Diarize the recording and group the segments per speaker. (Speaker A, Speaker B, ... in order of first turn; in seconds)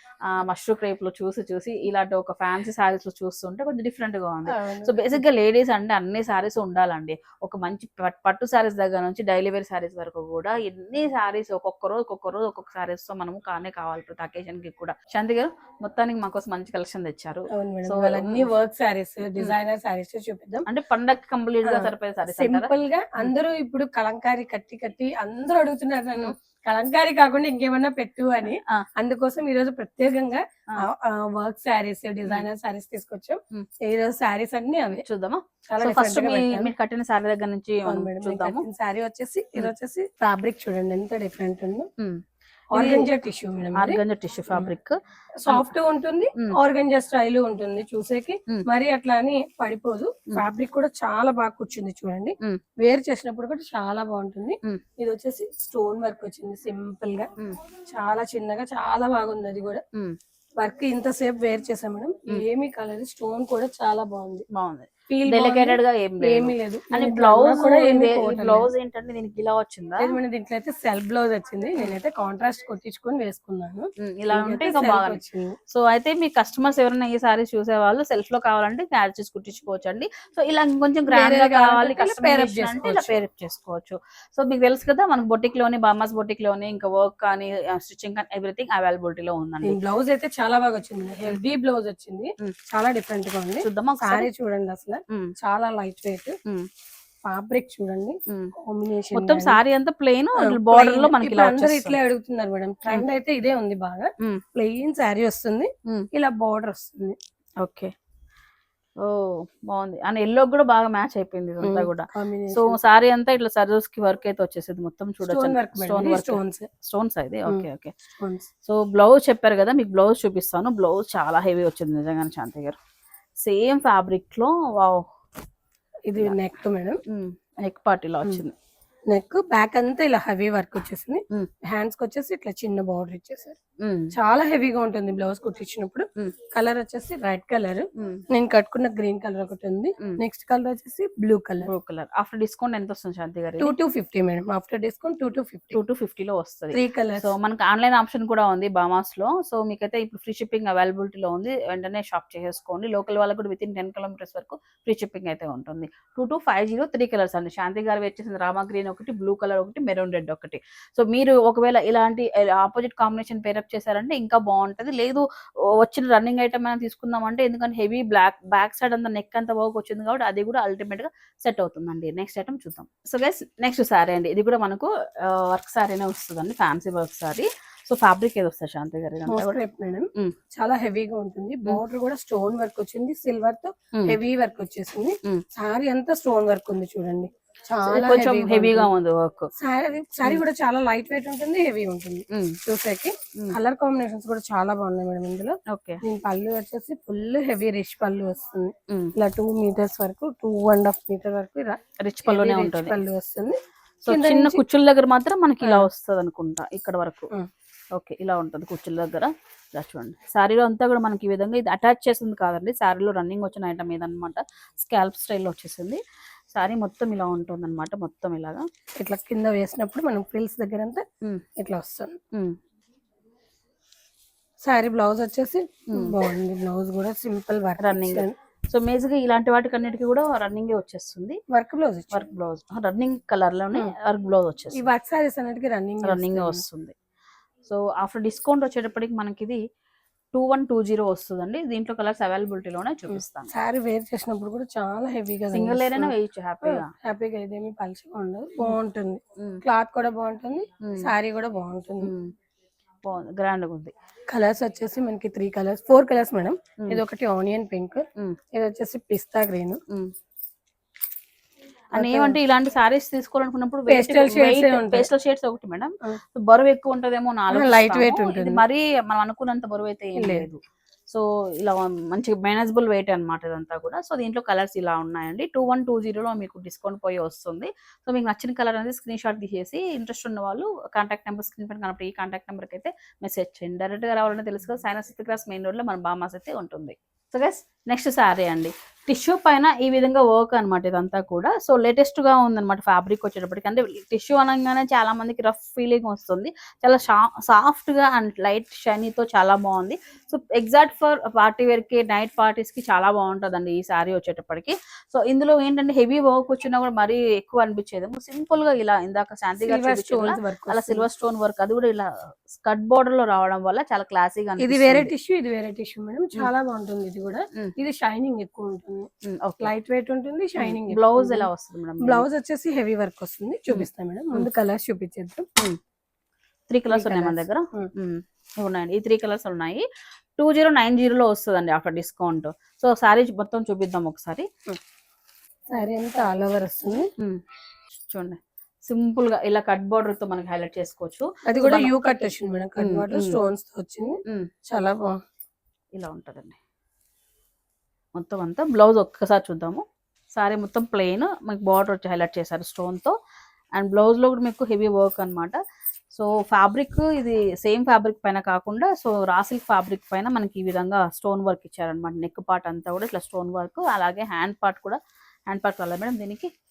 Speaker A: 0.3-18.5, 20.7-23.3, 28.5-28.9, 35.0-38.6, 42.7-43.1, 43.8-45.7, 64.5-70.2, 74.0-89.8, 93.6-94.3, 95.1-95.3, 98.3-98.5, 99.1-102.0, 107.6-107.9, 109.0-117.9, 118.7-122.8, 123.4-125.1, 127.1-128.6, 133.8-134.2, 138.0-138.2, 141.7-143.8, 145.7-179.6, 187.9-189.5, 192.3-192.6, 195.7-196.0, 202.0-203.0, 204.1-207.3, 207.9-216.0, 216.5-218.7, 225.9-226.2, 227.8-231.4, 232.1-234.9, 236.0-236.9, 237.6-239.6, 240.3-243.5, 245.5-246.9, 250.8-251.1, 252.0-252.3, 253.0-253.9, 261.9-315.1, 319.2-319.7, 320.6-322.2, 323.7-324.5, 326.7-329.9, 330.4-334.5, 338.1-341.9, 342.8-343.4, 345.9-346.6, 348.1-349.8, 350.4-353.1, 353.8-355.6, 356.1-365.0, 365.5-366.5
Speaker B: 4.5-5.2, 17.5-20.7, 21.6-35.0, 35.7-36.7, 37.9-41.9, 42.7-44.0, 45.4-57.3, 57.9-59.8, 60.6-64.5, 65.1-68.7, 70.0-75.6, 81.1-83.1, 89.6-96.4, 97.2-99.6, 100.4-107.2, 111.6-112.8, 115.2-116.7, 118.2-118.5, 126.1-127.0, 129.1-133.6, 134.1-141.7, 143.6-145.8, 146.7-147.3, 179.3-188.9, 189.6-204.6, 205.6-205.9, 219.0-221.1, 221.6-222.2, 224.7-228.3, 231.5-232.3, 234.8-236.6, 243.1-252.1, 254.3-259.8, 261.9-262.4, 263.9-265.1, 267.5-268.6, 270.2-270.5, 309.7-311.1, 314.6-321.5, 322.0-325.5, 326.9-327.9, 335.7-337.1, 341.5-345.2